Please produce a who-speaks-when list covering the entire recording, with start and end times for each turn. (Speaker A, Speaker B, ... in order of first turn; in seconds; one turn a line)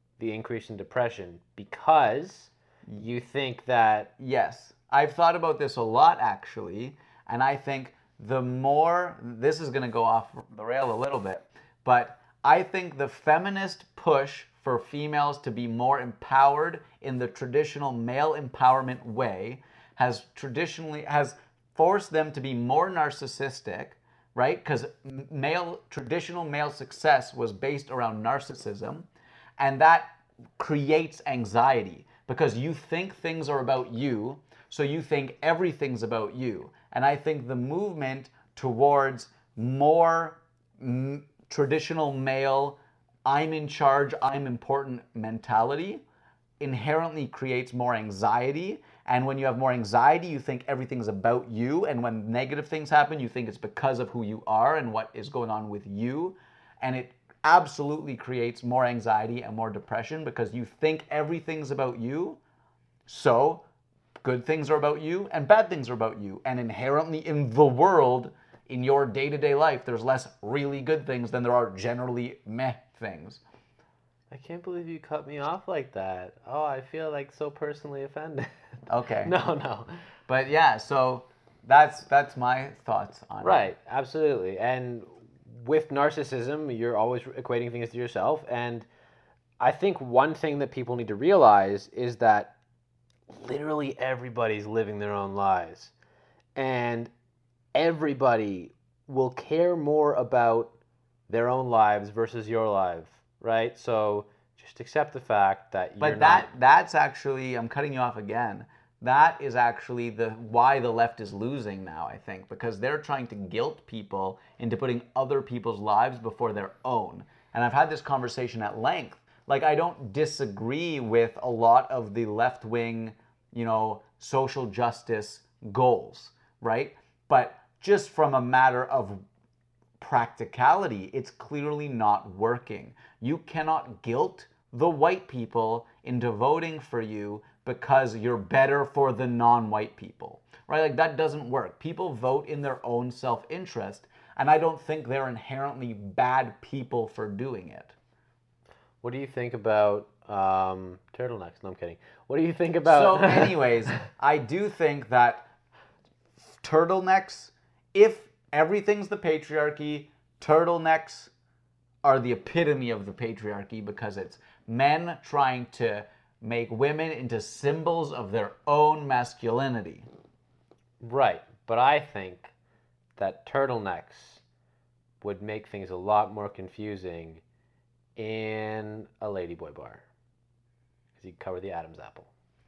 Speaker A: 0.2-4.1
Speaker B: 4.2-29.1
Speaker B: 29.6-46.0
Speaker B: 46.6-62.4
Speaker B: 63.1-63.6
Speaker B: 64.2-73.4
Speaker A: 74.3-78.5
Speaker B: 78.9-79.3
Speaker A: 79.2-79.9
Speaker B: 80.3-83.7
Speaker A: 83.4-88.9
Speaker A: 89.6-92.5
Speaker A: 93.3-95.9
Speaker A: 96.5-97.1
Speaker A: 97.7-100.7
Speaker A: 101.3-106.5
Speaker B: 106.0-129.2
Speaker B: 130.0-147.9
Speaker A: 149.0-153.6
Speaker B: 152.9-155.5
Speaker B: 156.6-161.3
Speaker B: 162.0-170.1
Speaker A: 171.0-172.5
Speaker A: 173.2-174.4
Speaker A: 175.2-177.4
Speaker A: 178.2-180.0
Speaker A: 181.2-182.3